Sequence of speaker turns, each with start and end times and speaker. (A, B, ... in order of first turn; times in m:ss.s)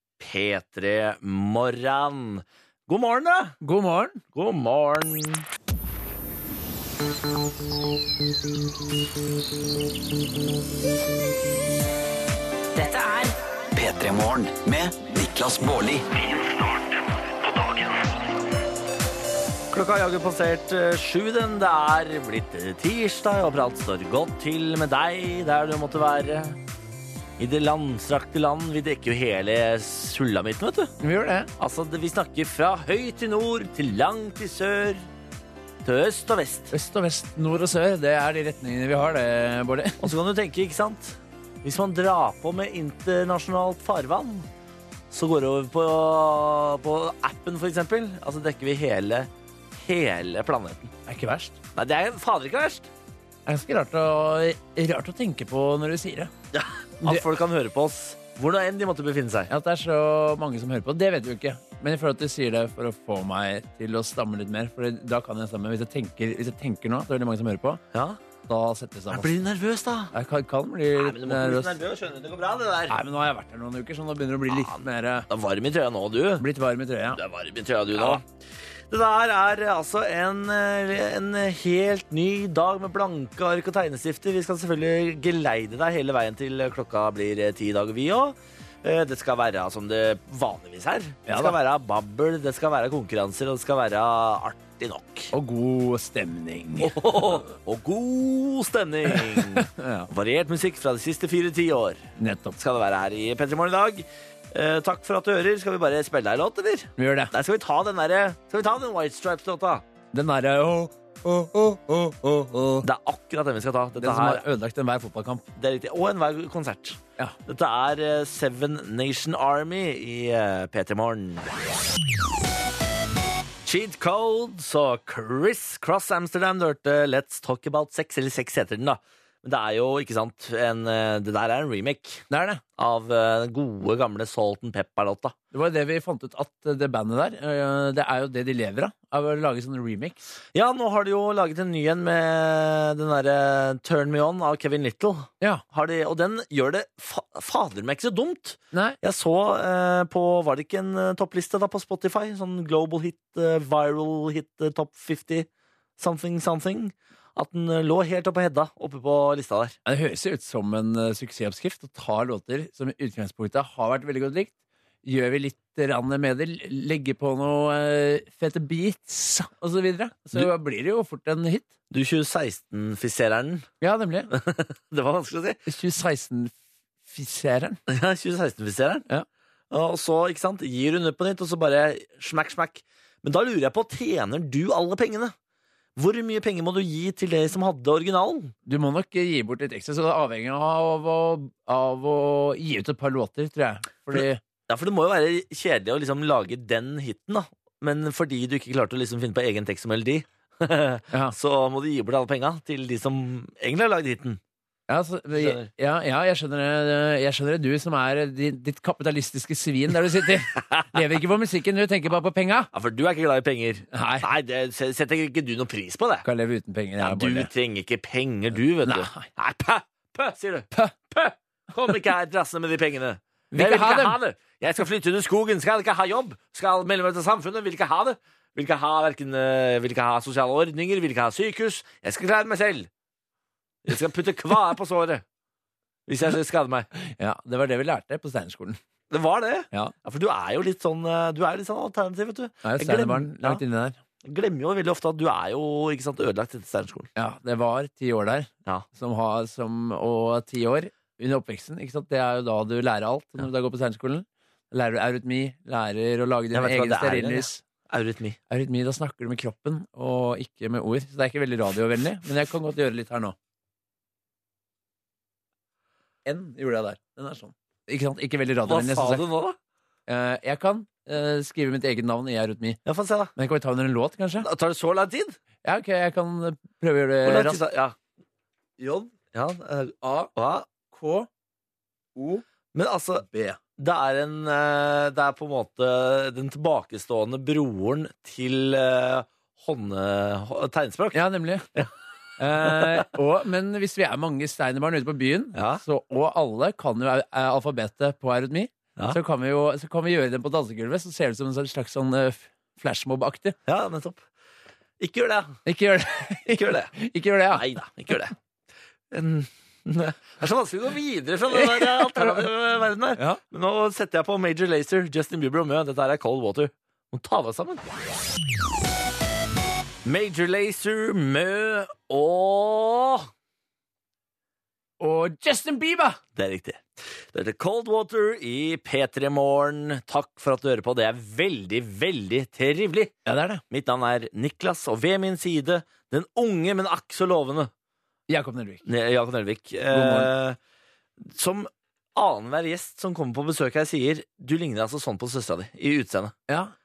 0:00.2-0:03.6 A
0:03.6-0:04.2 B
0:04.3-0:05.4 A
0:13.7-0:16.8 C
0:19.7-0:26.6 A
0:27.4-0:30.9 A
0:31.0-0:31.5 B
0:31.6-0:35.0 A
0:35.8-0:36.7 A
0:36.7-0:40.1 B
0:40.0-0:44.5 A
0:45.1-0:50.9 A
0:51.1-0:51.6 B
0:51.7-0:52.9 A
0:53.4-0:56.3 B
0:56.5-0:59.5 A
0:59.5-1:07.8 B
1:07.9-1:08.2 A
1:08.5-1:09.4 B
1:09.1-1:10.1 A
1:10.1-1:11.8 B
1:11.0-1:13.0 A
1:12.9-1:15.3 B
1:14.5-1:16.4 A
1:16.4-1:17.2 B
1:17.1-1:18.2 A
1:17.9-1:18.2 B
1:18.9-1:35.3 A
1:31.3-1:31.6 B
1:35.3-1:37.0 B
1:36.8-1:49.8 A
1:39.4-1:40.1 B
1:42.2-1:42.6 B
1:47.0-1:47.3 B
1:50.1-1:52.8 B
1:52.8-1:54.4 A
1:54.0-1:55.4 B
1:55.6-2:01.5 A
2:03.6-2:12.2 A
2:12.3-2:12.6 B
2:12.8-2:15.3 A
2:15.5-2:20.2 B
2:20.5-2:39.7 A
2:28.7-2:29.0 B
2:39.8-2:44.5 B
2:45.0-2:51.7 B
2:51.9-2:53.7 A
2:53.8-2:54.3 B
2:54.3-2:55.6 A
2:55.6-2:56.5 B
2:57.0-2:57.8 B
2:57.9-2:59.0 A
2:59.7-3:05.3 A
3:06.0-3:08.5 A
3:08.6-3:14.4 B
3:14.1-3:24.4 A
3:24.9-3:32.7 B
3:25.3-3:25.7 A
3:32.7-3:36.2 A
3:33.9-3:34.3 B
3:36.2-3:37.5 B
3:37.0-3:52.9 A
3:38.8-3:39.3 B
3:43.5-3:44.1 B
3:53.8-3:55.2 A
3:56.1-3:56.9 A
3:57.0-3:58.8 B
3:59.1-4:03.6 A
4:02.6-4:04.0 B
4:04.2-4:07.1 A
4:07.2-4:17.6 B
4:16.5-4:18.4 A
4:18.5-4:23.3 B
4:26.2-4:29.2 B
4:28.6-4:29.6 A
4:30.1-4:32.8 B
4:32.8-4:33.3 A
4:33.4-4:34.5 B
4:34.4-4:35.4 A
4:35.6-4:37.6 B
4:37.2-4:38.0 A
4:38.8-4:40.7 A
4:40.9-4:41.3 B
4:42.2-4:42.4 B
4:42.7-4:43.2 A
4:43.2-4:43.6 B
4:43.8-4:51.2 A
4:51.1-4:51.7 B
4:52.4-5:03.6 B
4:52.7-4:53.0 A
4:55.5-4:55.8 A
5:03.6-5:04.2 A
5:05.0-5:05.6 A
5:05.6-5:07.6 B
5:06.4-5:06.9 A
5:07.5-5:08.3 A
5:09.1-5:17.8 A
5:11.5-5:12.5 B
5:13.2-5:13.4 B
5:20.0-5:23.3 A
5:25.0-5:26.2 B
5:26.4-5:33.1 A
5:33.2-5:33.6 B
5:33.7-5:37.7 A
5:38.3-5:38.8 B
5:38.8-5:40.6 A
5:39.9-5:40.3 B
5:41.3-5:46.3 A